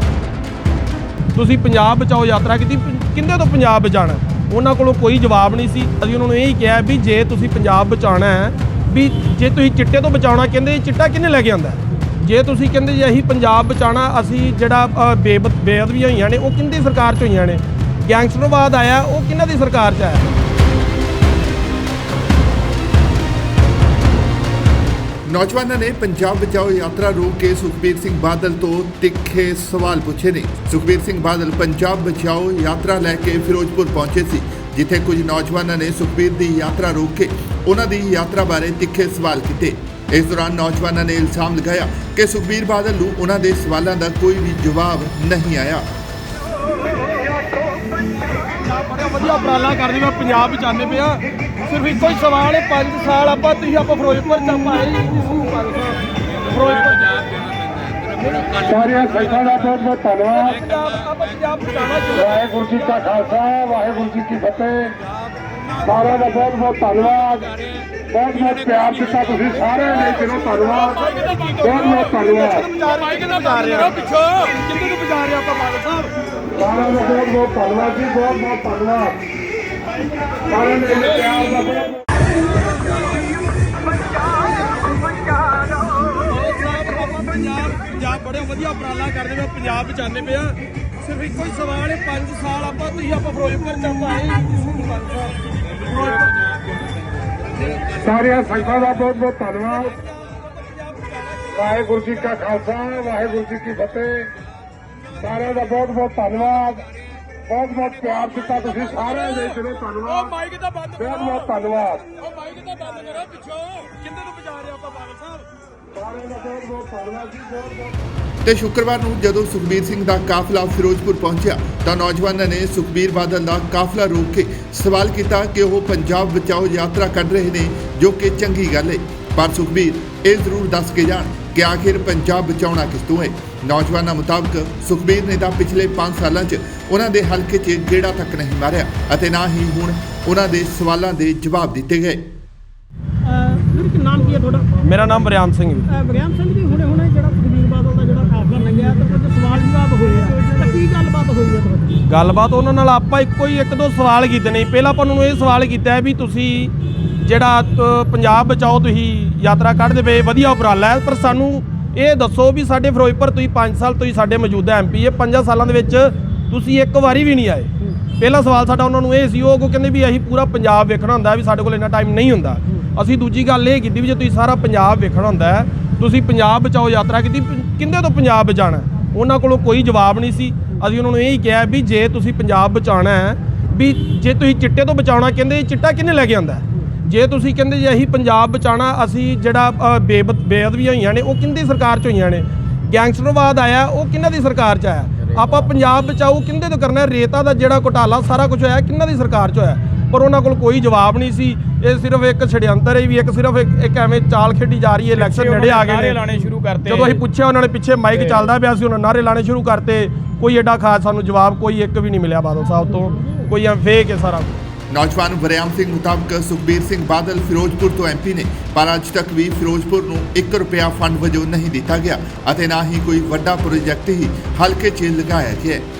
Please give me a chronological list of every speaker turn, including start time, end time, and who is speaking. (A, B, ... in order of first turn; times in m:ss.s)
0:01.3-0:20.3 A
0:25.3-0:45.9 B
0:48.5-0:57.2 A
0:58.2-1:03.3 A
0:58.7-1:00.3 C
1:02.3-1:04.9 C
1:05.8-1:06.6 A
1:05.9-1:07.5 C
1:08.1-1:11.0 C
1:08.2-1:16.1 A
1:11.7-1:12.5 C
1:16.6-1:19.2 C
1:20.3-1:21.8 A
1:20.7-1:22.0 C
1:22.9-1:23.2 A
1:24.1-1:36.3 A
1:38.0-1:42.1 A
1:38.0-1:39.7 C
1:41.7-1:44.3 C
1:45.2-1:46.8 C
1:47.5-1:50.2 C
1:47.9-1:55.5 A
1:51.0-1:52.0 C
1:55.9-1:57.9 C
1:58.4-2:22.3 B
2:23.2-2:24.8 D
2:24.8-2:25.9 A
2:25.9-2:32.0 D
2:32.1-3:26.2 A
3:25.2-3:27.2 E
3:26.8-3:34.6 A
3:28.1-3:28.5 E
3:34.9-3:45.9 B